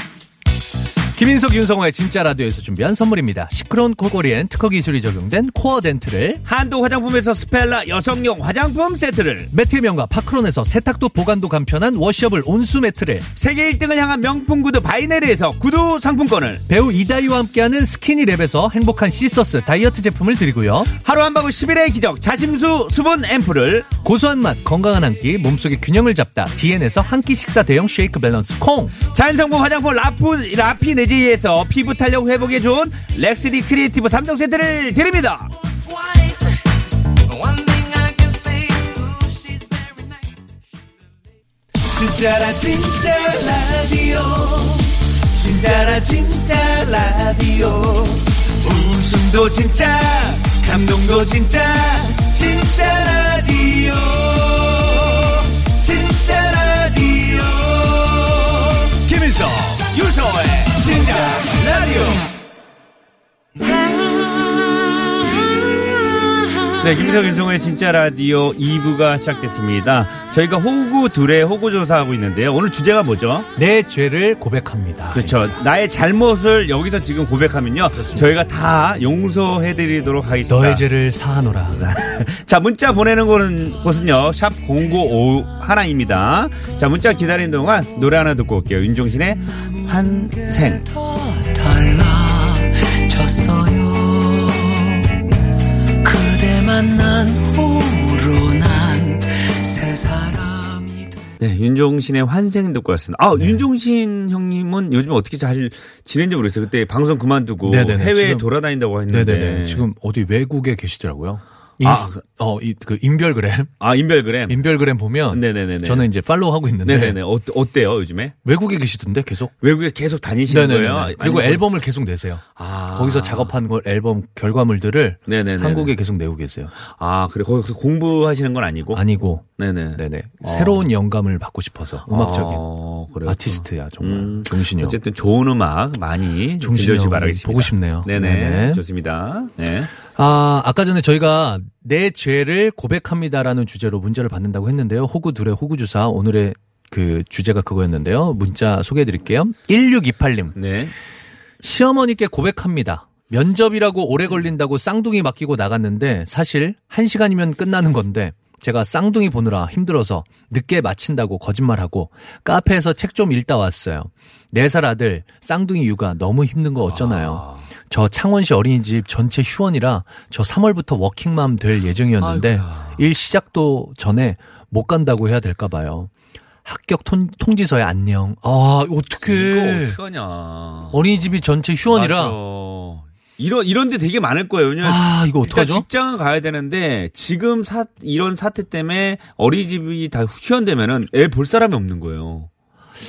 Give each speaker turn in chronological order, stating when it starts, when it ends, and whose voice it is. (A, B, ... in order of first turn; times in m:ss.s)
0:01.2-0:06.4 A
0:06.4-0:09.5 B
0:09.5-0:13.3 A
0:13.4-0:16.6 B
0:16.7-0:20.9 A
0:21.0-0:23.9 B
0:24.0-0:29.0 A
0:29.1-0:35.5 B
0:35.6-0:36.7 C
0:37.2-0:40.4 C
0:41.8-1:02.3 B
1:03.6-1:05.8 B
1:06.8-1:13.5 B
1:13.6-1:15.6 A
1:15.1-1:20.8 B
1:18.0-1:18.3 A
1:20.5-1:21.9 A
1:21.8-1:30.8 B
1:29.6-1:35.3 C
1:36.0-1:41.2 C
1:41.4-1:49.9 B
1:47.6-1:48.5 A
1:49.1-1:53.7 A
1:51.8-1:52.2 B
1:53.8-1:54.6 B
1:54.5-1:57.2 A
1:55.3-1:56.1 B
1:56.8-1:58.4 B
1:58.4-1:59.5 A
1:59.6-2:01.6 B
2:00.5-2:06.7 A
2:02.6-2:03.5 B
2:05.3-2:05.9 B
2:06.8-2:09.0 B
2:08.9-2:12.6 A
2:09.6-2:10.9 B
2:12.1-2:19.9 B
2:13.3-2:15.0 A
2:16.6-2:18.8 A
2:20.2-2:30.6 A
2:30.6-2:30.9 B
2:31.6-2:56.1 A
2:46.9-2:47.7 B
2:52.2-2:53.0 B
2:56.6-3:00.0 A
2:59.3-3:01.1 B
3:00.9-3:02.4 A
3:01.9-3:12.5 B
3:04.8-3:05.8 A